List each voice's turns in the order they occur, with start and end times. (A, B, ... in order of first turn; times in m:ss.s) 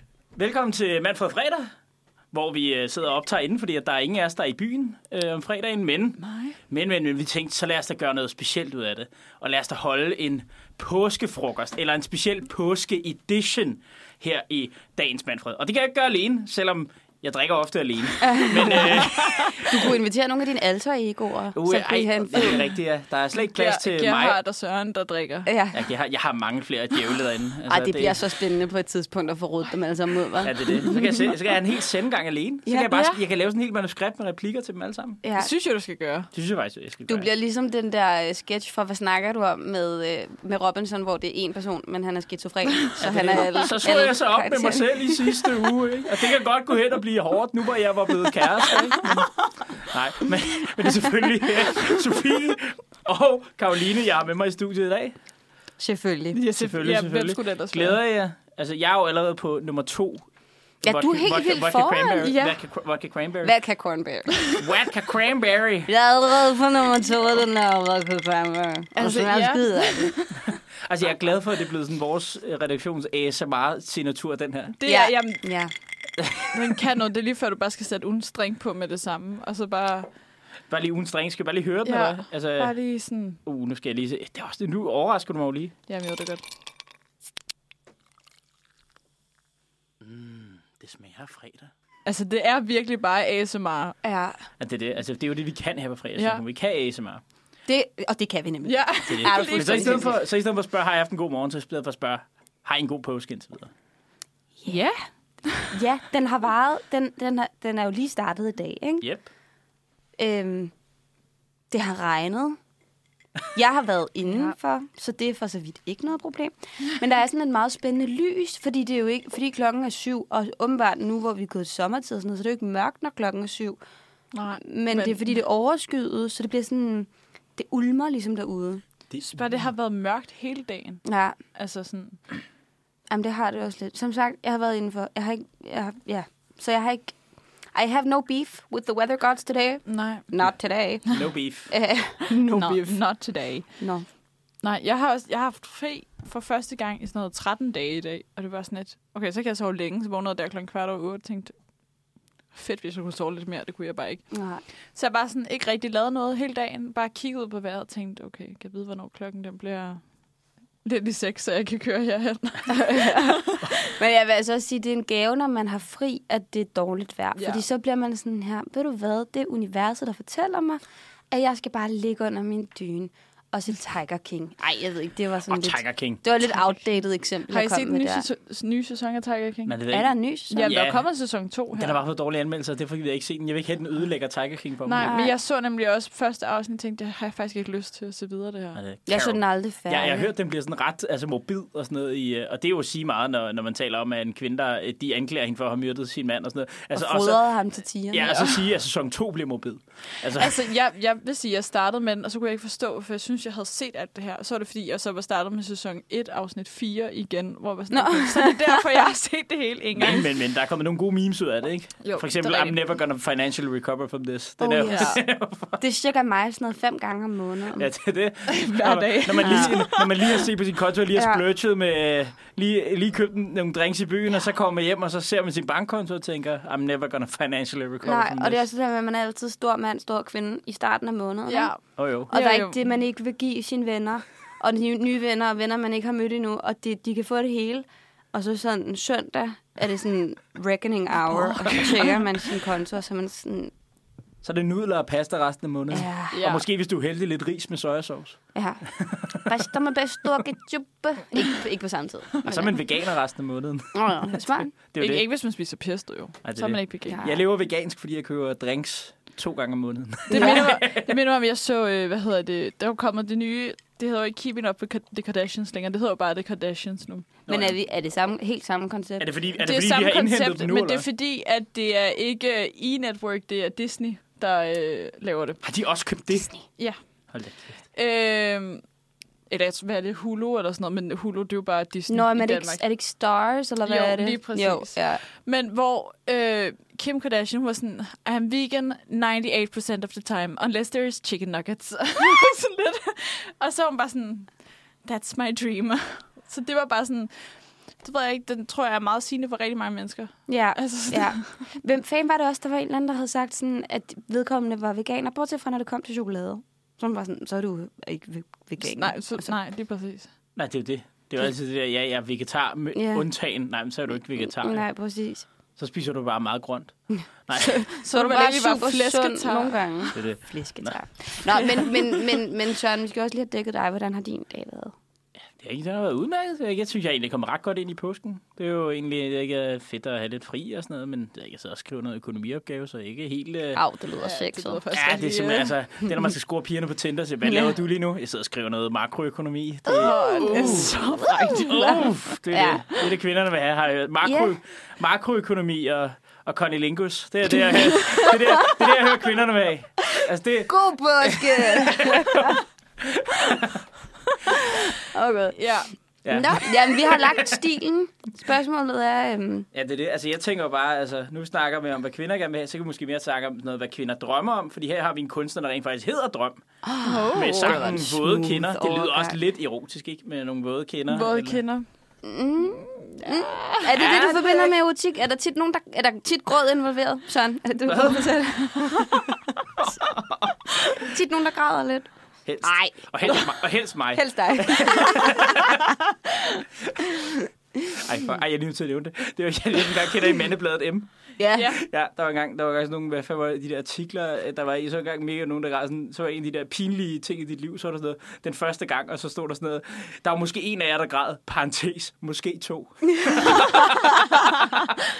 0:00.4-0:01.7 A
0:02.3-0:19.9 A
0:06.2-0:06.6 B
0:18.2-0:22.6 C
0:21.5-0:24.4 A
0:23.5-0:25.5 B
0:25.5-0:25.8 C
0:25.7-0:28.2 A
0:27.7-0:31.3 C
0:30.4-0:35.2 A
0:35.2-0:35.5 C
0:35.4-0:36.3 B
0:36.3-0:37.3 A
0:37.1-0:45.5 C
0:43.0-0:55.1 A
0:55.8-0:56.4 C
0:56.3-0:58.0 B
0:56.6-1:00.3 A
1:00.8-1:03.5 A
1:00.8-1:02.3 C
1:02.2-1:02.6 B
1:03.4-1:04.6 C
1:04.6-1:05.9 A
1:05.9-1:10.2 C
1:09.0-1:10.4 B
1:10.8-1:14.8 A
1:14.8-1:15.4 B
1:14.8-1:15.7 C
1:16.2-1:16.8 A
1:16.5-1:20.1 B
1:20.7-1:22.8 A
1:21.8-1:23.4 B
1:23.4-1:25.7 A
1:25.9-1:26.4 B
1:30.0-1:31.7 A
1:32.0-1:34.0 B
1:34.0-1:34.4 C
1:34.6-1:37.2 A
1:36.2-1:36.4 B
1:37.7-1:40.2 C
1:38.6-1:40.1 B
1:39.1-1:43.7 A
1:44.7-1:45.7 B
1:45.6-1:49.1 C
1:49.0-1:49.3 A
1:50.2-1:50.7 C
1:51.7-1:52.6 C
1:53.5-2:03.8 C
2:04.3-2:05.3 B
2:04.6-2:08.8 C
2:09.1-2:09.7 A
2:09.2-2:12.2 B
2:11.0-2:11.4 C
2:13.1-2:17.2 C
2:17.7-2:23.0 C
2:19.8-2:20.3 B
2:21.1-2:21.7 A
2:22.5-2:23.8 B
2:23.8-2:24.0 C
2:24.6-2:31.7 B
2:32.5-2:40.1 B
2:34.3-2:34.6 C
2:40.8-2:43.8 B
2:42.7-2:58.2 C
2:47.3-2:47.6 B
2:55.5-2:56.2 A
2:57.5-2:59.8 B
2:59.7-3:01.0 A
2:59.9-3:00.7 C
3:00.5-3:02.0 B
3:01.7-3:05.1 A
3:04.8-3:08.8 B
3:05.0-3:05.3 C
3:08.7-3:20.6 A
3:09.1-3:10.3 C
3:16.9-3:18.4 C
3:18.2-3:18.5 B
3:20.4-3:30.3 B
3:27.9-3:28.9 C
3:30.0-3:35.8 A
3:32.0-3:32.8 B
3:34.6-3:37.9 C
3:34.8-3:35.2 B
3:37.8-3:48.6 A
3:38.5-3:40.4 B
3:39.4-3:39.8 C
3:41.1-3:41.4 C
3:48.0-3:51.7 C
3:51.5-3:52.8 B
3:52.0-3:52.3 A
3:52.3-4:03.7 C
4:04.4-4:09.4 A
4:05.9-4:06.4 C
4:06.3-4:06.6 B
4:08.5-4:12.8 C
4:12.4-4:15.2 A
4:13.9-4:14.7 C
4:15.0-4:17.2 B
4:16.4-4:21.2 A
4:17.1-4:17.4 C
4:20.3-4:20.6 C
4:20.3-4:27.3 B
4:27.5-4:27.8 A
4:27.5-4:29.3 C
4:29.2-4:31.1 A
4:29.6-4:35.6 B
4:35.6-4:36.5 A
4:36.8-4:37.3 B
4:37.3-4:37.8 A
4:37.9-4:38.8 B
4:39.5-4:42.8 B
4:42.1-4:45.2 C
4:43.8-5:01.6 B
5:00.5-5:09.5 C
5:08.8-5:10.3 B
5:10.6-5:14.9 A
5:12.9-5:13.2 C
5:14.4-5:15.5 C
5:15.8-5:17.8 A
5:17.8-5:20.1 B
5:17.9-5:24.9 C
5:20.2-5:21.0 A
5:25.6-5:33.8 A
5:33.8-5:34.8 C
5:34.2-5:35.7 B
5:34.9-5:41.0 A
5:37.4-5:37.7 C
5:39.9-5:42.8 C
5:39.9-5:42.1 B
5:41.6-5:53.9 A
5:44.2-5:44.6 C
5:48.0-5:48.4 C
5:50.7-5:52.6 C
5:54.7-5:55.8 C
5:55.6-5:55.9 B
5:56.2-5:57.6 A
5:56.3-5:59.7 C
5:59.7-6:06.6 A
6:06.8-6:09.4 C
6:07.0-6:08.0 B
6:07.3-6:11.6 A
6:11.1-6:11.8 B
6:12.2-6:19.4 C
6:13.2-6:14.7 B
6:17.9-6:18.3 A
6:19.8-6:20.7 A
6:20.8-6:22.1 C
6:22.5-6:25.9 A
6:22.6-6:25.7 C
6:27.9-6:44.9 A
6:31.4-6:31.7 C